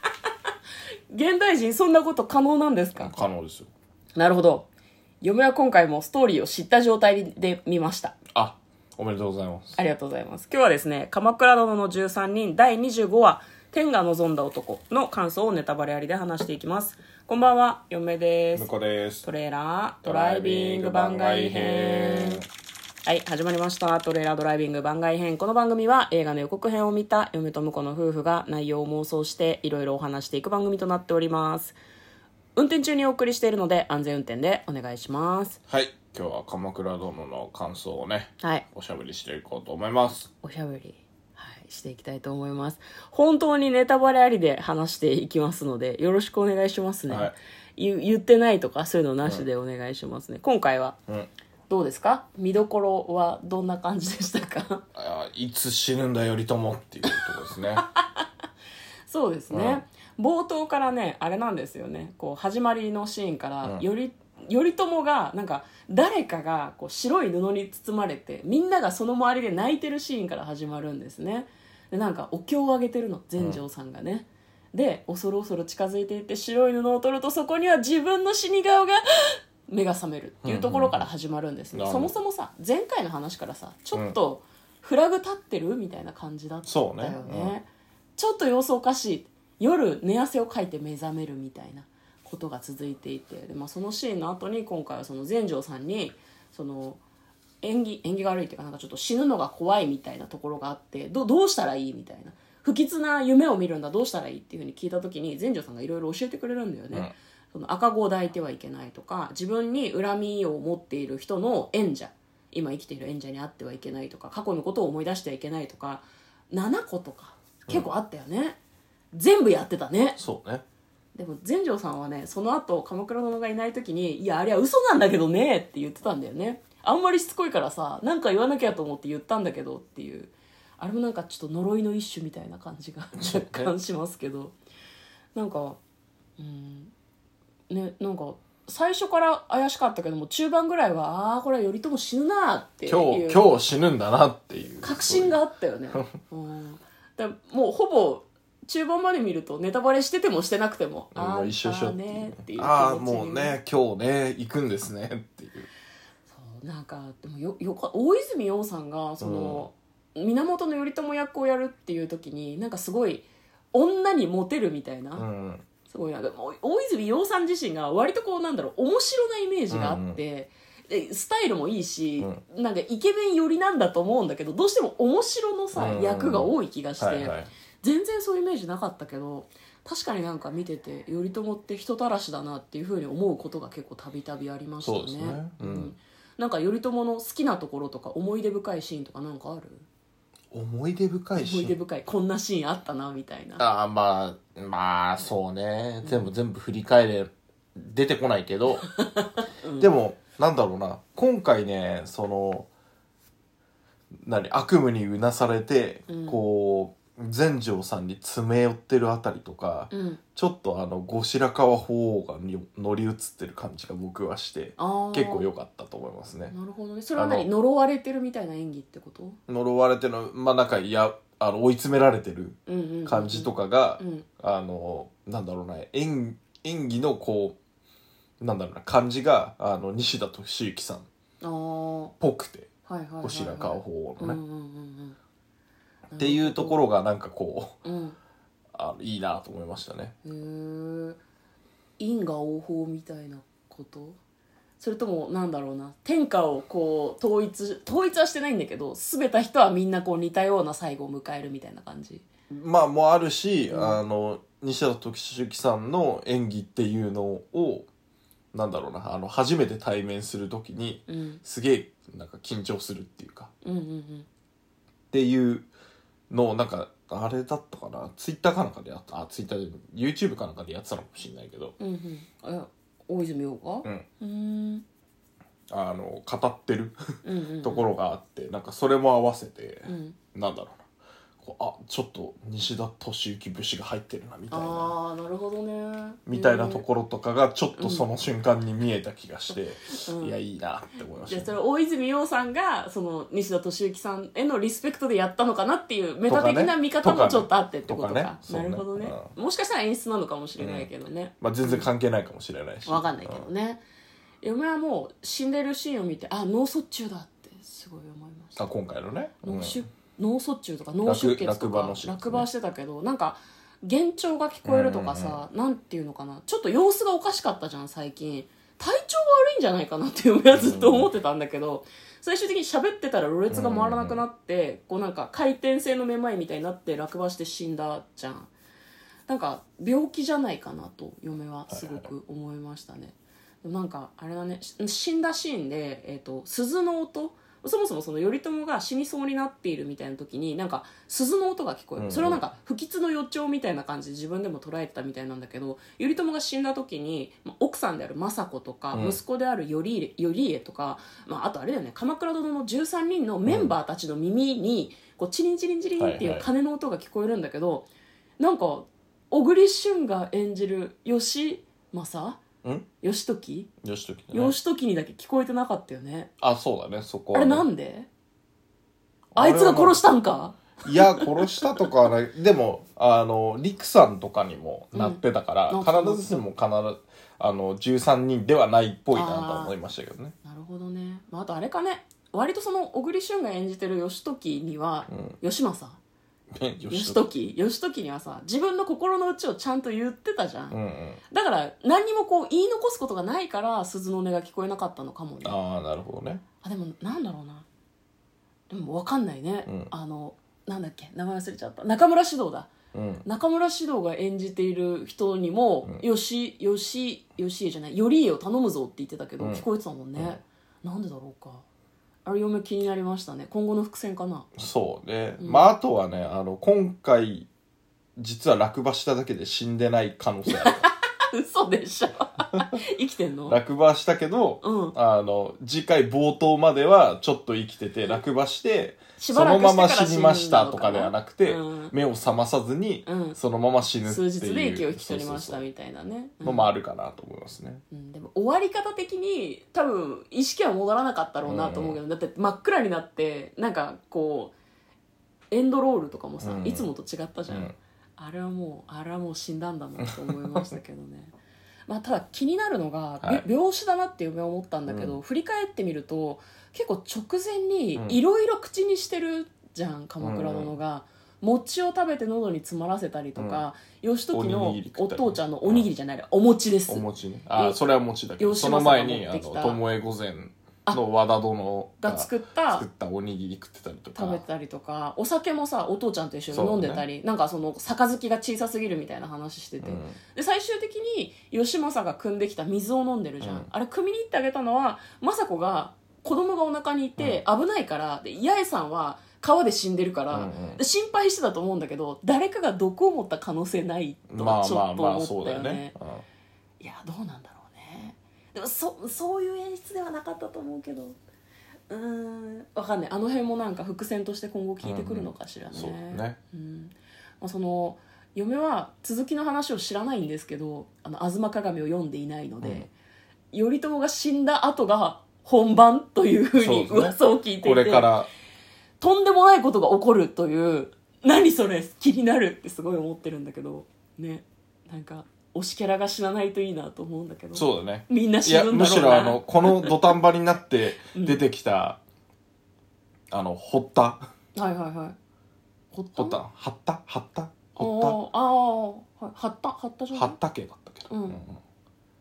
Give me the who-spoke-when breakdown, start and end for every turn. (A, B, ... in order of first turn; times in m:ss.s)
0:01.1-0:03.2 A
0:03.0-0:03.7 B
0:04.2-0:04.7 A
0:05.2-0:08.2 A
0:08.4-0:09.8 B
0:09.8-0:18.7 A
0:18.5-0:19.3 B
0:19.2-0:22.4 A
0:20.0-0:22.5 B
0:23.0-0:31.8 A
0:32.6-0:35.6 A
0:35.7-0:40.3 B
0:40.4-0:51.0 A
0:51.7-0:54.8 A
0:55.0-0:57.8 B
0:57.9-0:58.3 A
0:59.1-1:37.0 A
0:59.5-0:59.8 B
1:20.4-1:21.0 B
1:21.7-1:22.2 B
1:26.7-1:27.6 B
1:37.6-1:58.6 A
1:59.1-2:00.2 A
2:00.2-2:00.6 B
2:01.1-2:14.6 A
2:13.2-2:13.7 B
2:15.4-2:15.8 A
2:16.4-2:16.9 A
2:17.7-2:23.5 A
2:22.9-2:25.4 B
2:24.8-2:33.6 A
2:31.1-2:35.7 B
2:36.3-2:45.3 A
2:39.2-2:39.7 B
2:45.2-2:45.6 B
2:45.9-3:09.9 A
2:49.7-2:50.2 B
2:55.8-2:57.5 B
3:04.8-3:06.0 B
3:10.5-3:11.8 B
3:11.4-3:13.6 A
3:13.6-3:18.9 B
3:16.0-3:16.3 A
3:18.8-3:19.9 A
3:19.8-3:22.7 B
3:24.2-3:36.5 B
3:26.1-3:26.4 A
3:29.9-3:30.2 A
3:34.8-3:35.5 A
3:36.5-3:39.4 A
3:37.2-3:37.5 B
3:39.5-3:47.6 B
3:42.7-3:44.3 A
3:48.4-3:51.1 B
3:51.4-3:52.1 A
3:52.2-3:52.7 B
3:52.9-3:55.2 A
3:53.2-3:54.4 B
3:56.1-3:56.8 A
3:56.2-3:57.8 B
3:57.8-3:58.2 A
3:58.7-4:00.2 B
4:00.2-4:01.2 A
4:02.0-4:04.2 A
4:04.8-4:12.3 A
4:12.5-4:17.9 B
4:13.7-4:14.0 A
4:18.5-4:23.5 B
4:21.1-4:21.4 A
4:23.6-4:24.3 A
4:25.1-4:25.7 B
4:26.3-4:31.8 B
4:31.8-4:34.8 A
4:35.7-4:37.0 B
4:37.2-4:37.9 A
4:37.6-4:40.8 B
4:39.9-4:40.2 A
4:41.4-4:45.0 B
4:44.5-4:46.8 A
4:46.3-4:51.5 B
4:47.8-4:48.0 A
4:49.9-4:50.4 A
4:51.3-5:01.9 A
4:56.3-4:59.3 B
5:00.6-5:00.9 B
5:01.4-5:03.5 B
5:02.9-5:03.8 A
5:04.4-5:08.6 A
5:08.6-5:09.8 B
5:09.4-5:28.5 A
5:11.0-5:12.5 B
5:14.6-5:15.4 B
5:20.5-5:21.1 B
5:23.5-5:24.2 B
5:29.3-6:02.4 A
5:31.7-5:32.1 B
5:42.0-5:42.4 B
5:48.9-5:49.2 B
5:53.5-5:53.7 B
5:56.0-5:56.5 B
6:03.0-6:03.7 A
6:03.8-6:04.6 B
6:04.3-6:06.3 A
6:06.4-6:07.7 B
6:07.3-6:08.1 A
6:09.4-6:10.0 B
6:09.4-6:11.9 A
6:10.8-6:20.4 B
6:14.9-6:16.4 A
6:19.1-6:19.7 A
6:20.4-6:26.0 A
6:25.1-6:25.4 B
6:26.6-6:27.2 B
6:26.9-6:30.8 A
6:30.7-6:31.2 B
6:31.3-6:35.6 A
6:35.4-6:36.4 B
6:36.6-6:37.7 A
6:38.7-6:42.7 A
6:39.7-6:39.9 B
6:42.9-6:43.2 B
6:43.2-6:51.6 A
6:49.4-6:50.4 B
6:52.2-6:54.5 A
6:54.6-6:57.5 B
6:55.4-6:55.7 A
6:58.2-7:00.9 B
7:00.6-7:03.6 A
7:03.5-7:15.6 B
7:04.6-7:05.0 A
7:09.2-7:11.9 A
7:13.0-7:13.4 A
7:14.0-7:16.7 A
7:16.4-7:17.8 B
7:17.9-7:24.6 A
7:21.4-7:22.0 B
7:25.5-7:31.3 A
7:26.4-7:26.9 B
7:27.5-7:27.8 B
7:30.0-7:30.6 B
7:31.9-7:47.0 A
7:34.9-7:35.2 B
7:40.2-7:40.7 B
7:43.4-7:43.6 B
7:44.3-7:45.9 B
7:46.9-7:54.4 B
7:47.6-7:47.8 A
7:48.4-7:49.8 A
7:52.0-7:52.9 A
7:54.2-8:16.0 A
7:56.5-7:57.0 B
7:59.8-8:00.2 B
8:03.4-8:03.7 B
8:10.3-8:10.8 B
8:14.3-8:16.2 B
8:16.8-8:21.2 A
8:21.9-8:32.9 A
8:24.8-8:26.4 B
8:32.6-8:32.9 B
8:33.5-8:38.1 A
8:36.6-8:38.3 B
8:39.0-8:50.1 A
8:47.5-8:52.0 B
8:51.1-8:51.4 A
8:53.3-8:54.3 B
8:54.6-8:55.2 A
8:55.9-8:56.4 A
8:56.2-8:58.2 B
8:57.8-9:00.4 A
9:00.1-9:01.6 B
9:01.1-9:01.4 A